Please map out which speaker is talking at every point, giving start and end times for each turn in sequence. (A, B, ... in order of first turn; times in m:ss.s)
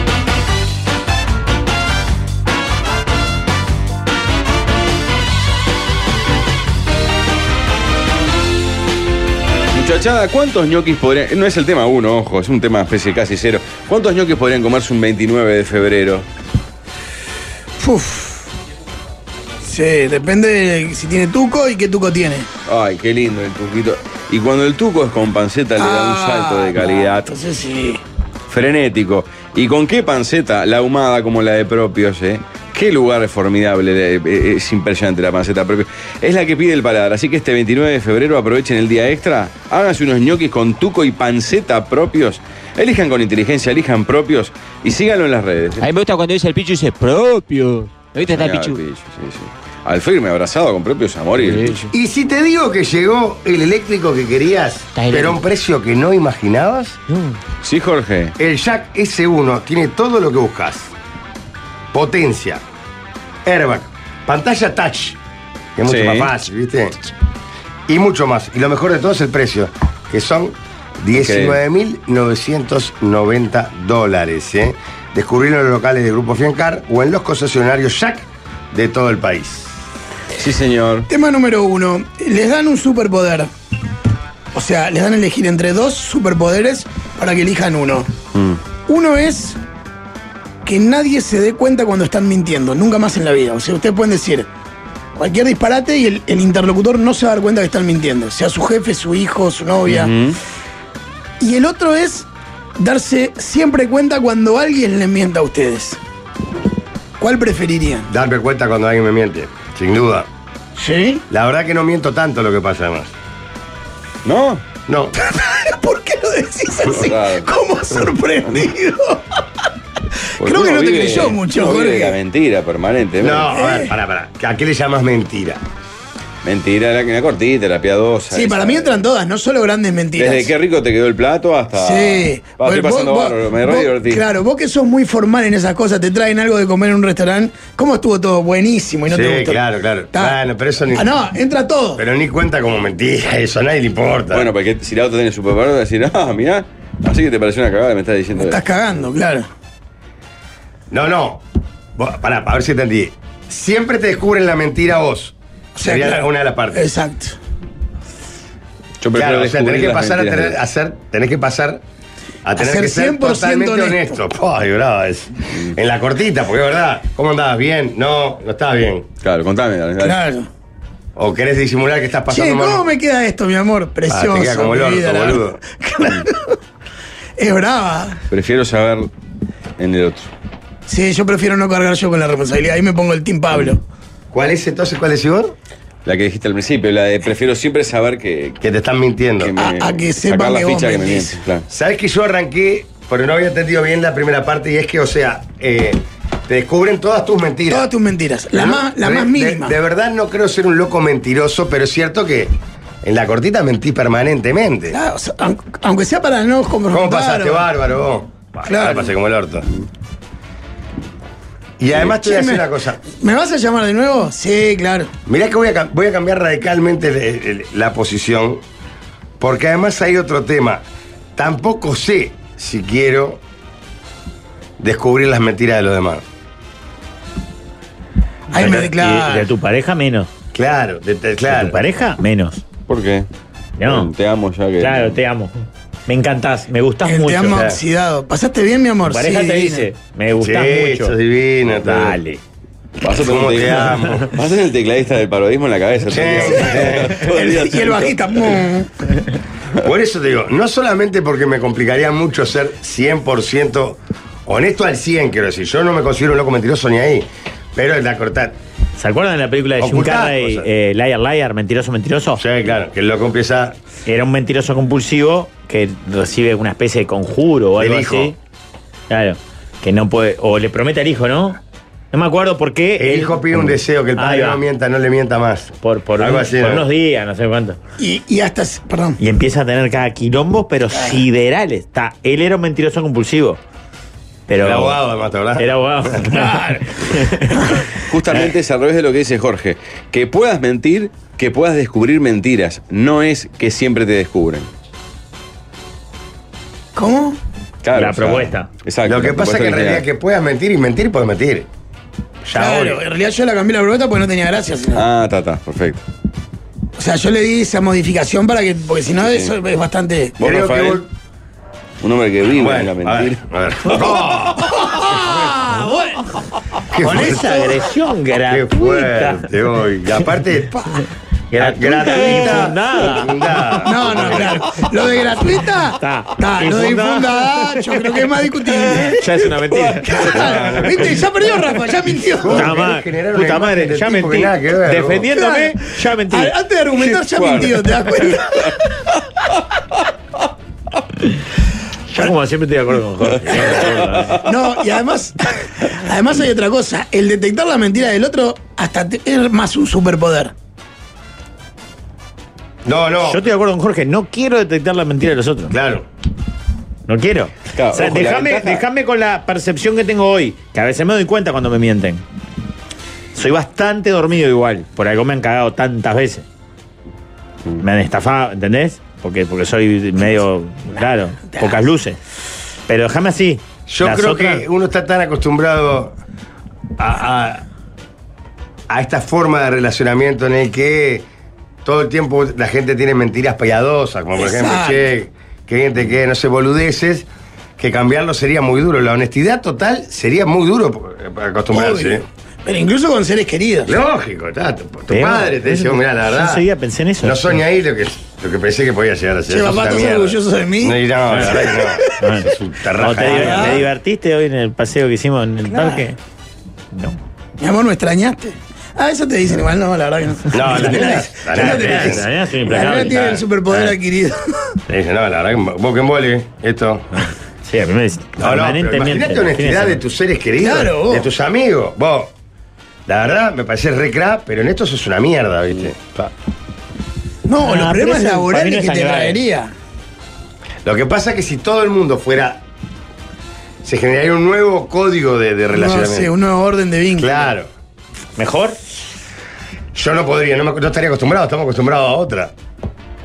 0:09.7-0:16.2 A
0:17.8-0:18.5 B
0:19.6-0:22.5 B
0:22.6-0:27.4 A
0:25.8-0:28.0 B
0:28.5-0:45.8 A
0:45.8-0:48.8 C
0:48.2-0:51.9 A
0:51.4-0:51.9 C
0:51.9-0:57.0 D
0:54.9-0:55.4 C
0:57.1-0:57.4 C
0:57.6-0:58.3 A
0:58.4-1:00.9 D
1:01.9-1:02.6 D
1:03.4-1:05.2 D
1:05.8-1:07.1 D
1:05.8-1:06.3 A
1:07.9-1:19.7 D
1:11.1-1:11.6 A
1:20.3-1:21.1 A
1:21.1-1:23.5 B
1:24.5-1:28.1 B
1:28.3-1:28.6 A
1:28.9-1:29.6 B
1:30.6-1:34.5 B
1:35.2-1:40.1 B
1:39.8-1:40.4 A
1:41.4-1:42.3 B
1:42.8-1:46.0 B
1:47.2-1:48.1 B
1:48.1-1:50.3 D
1:50.8-1:51.2 B
1:51.3-1:53.1 D
1:54.2-1:54.6 A
1:54.9-1:55.2 D
1:55.2-1:59.4 B
1:56.8-1:57.5 A
2:00.4-2:03.6 A
2:00.4-2:02.2 B
2:03.2-2:05.6 D
2:03.5-2:03.9 B
2:06.4-2:09.0 A
2:08.3-2:10.5 B
2:10.2-2:14.2 A
2:11.7-2:19.6 B
2:19.1-2:21.1 D
2:20.9-2:22.0 B
2:22.0-2:24.5 D
2:24.3-2:28.6 A
2:28.3-2:29.5 B
2:30.9-2:31.4 D
2:32.0-2:36.9 D
2:35.7-2:36.2 B
2:36.7-2:37.4 B
2:39.0-2:40.6 A
2:39.1-2:41.8 D
2:42.4-2:49.1 D
2:42.6-2:44.2 B
2:49.2-2:50.2 A
2:50.0-2:50.5 B
2:51.2-2:52.9 D
2:52.3-2:56.6 B
2:54.1-2:56.1 D
2:57.4-2:58.2 B
2:58.3-2:59.1 A
2:59.8-3:00.3 A
3:00.9-3:03.8 B
3:04.3-3:05.5 D
3:06.0-3:08.6 A
3:08.6-3:09.6 D
3:09.4-3:11.7 A
3:09.6-3:11.4 B
3:11.7-3:17.9 D
3:17.7-3:19.8 B
3:18.5-3:25.0 D
3:24.9-3:27.7 B
3:26.9-3:29.7 D
3:28.6-3:29.1 B
3:31.8-3:33.0 D
3:31.9-3:35.1 B
3:35.2-3:38.6 D
3:39.4-3:40.8 D
3:41.4-3:43.4 D
3:44.8-3:46.2 D
3:48.5-3:49.5 B
3:48.5-3:50.3 E
3:50.5-3:51.8 D
3:51.4-3:52.6 E
3:52.9-3:53.2 A
3:53.8-3:54.1 E
3:53.8-3:55.1 A
3:54.8-3:57.7 E
3:57.0-3:59.9 B
3:57.5-3:57.8 D
3:59.0-4:01.1 E
4:00.4-4:02.2 D
4:01.8-4:02.4 E
4:03.0-4:08.6 A
4:03.0-4:04.4 D
4:06.1-4:07.2 D
4:06.4-4:08.9 B
4:09.8-4:18.5 D
4:19.0-4:22.4 E
4:19.8-4:20.7 D
4:22.4-4:23.8 D
4:24.1-4:28.4 E
4:27.8-4:28.3 D
4:29.1-4:31.6 E
4:32.1-4:34.6 E
4:33.0-4:36.8 D
4:35.8-4:37.8 E
4:38.0-4:39.2 B
4:39.2-4:43.6 E
4:44.5-4:45.0 E
4:44.6-4:46.2 D
4:45.6-4:48.4 E
4:46.3-4:47.0 B
4:47.9-4:54.7 A
4:56.9-4:57.4 B
4:57.8-5:00.0 A
4:57.9-4:58.7 E
4:59.0-5:01.7 D
5:02.4-5:03.0 E
5:02.5-5:05.0 B
5:04.9-5:06.0 A
5:07.0-5:10.3 B
5:09.2-5:09.5 A
5:10.4-5:11.0 A
5:10.4-5:11.1 D
5:12.0-5:13.4 A
5:12.5-5:15.4 D
5:14.7-5:16.2 B
5:16.9-5:17.8 D
5:17.0-5:19.5 E
5:17.3-5:17.6 B
5:18.5-5:21.0 D
5:21.5-5:23.4 E
5:21.6-5:24.7 D
5:23.7-5:24.4 A
5:23.8-5:29.2 B
5:25.9-5:28.2 E
5:28.9-5:29.2 A
5:28.9-5:30.7 E
5:29.7-5:31.3 A
5:30.0-5:32.7 B
5:32.4-5:35.3 D
5:32.4-5:36.6 E
5:35.3-5:39.1 B
5:36.9-5:38.8 A
5:42.1-5:44.4 E
5:43.3-5:44.5 A
5:43.5-5:50.5 B
5:52.8-5:53.4 D
5:53.2-5:55.7 E
5:55.7-5:56.0 D
5:57.1-6:02.2 E
5:57.7-5:58.8 A
6:03.3-6:06.4 E
6:07.8-6:12.2 E
6:11.5-6:11.8 B
6:12.9-6:14.6 E
6:13.9-6:16.2 D
6:17.0-6:17.6 D
6:18.9-6:21.2 D
6:21.8-6:27.3 D
6:24.4-6:25.1 B
6:27.8-6:32.2 D
6:31.7-6:34.0 B
6:33.8-6:36.6 D
6:35.1-6:37.6 E
6:37.2-6:43.8 D
6:39.5-6:42.1 B
6:41.3-6:46.2 E
6:43.2-6:43.8 B
6:45.7-6:46.0 B
6:46.9-6:47.2 E
6:47.6-6:54.8 B
6:50.5-6:52.3 D
6:51.5-6:53.9 E
6:52.8-6:53.9 D
6:54.9-6:57.3 D
6:57.2-7:00.0 E
6:58.4-7:02.3 D
7:00.6-7:01.3 B
7:03.1-7:06.3 D
7:07.4-7:09.7 B
7:07.6-7:09.4 E
7:10.8-7:12.6 D
7:13.8-7:16.3 D
7:15.7-7:17.5 B
7:17.2-7:17.7 D
7:18.4-7:18.8 E
7:19.9-7:22.5 D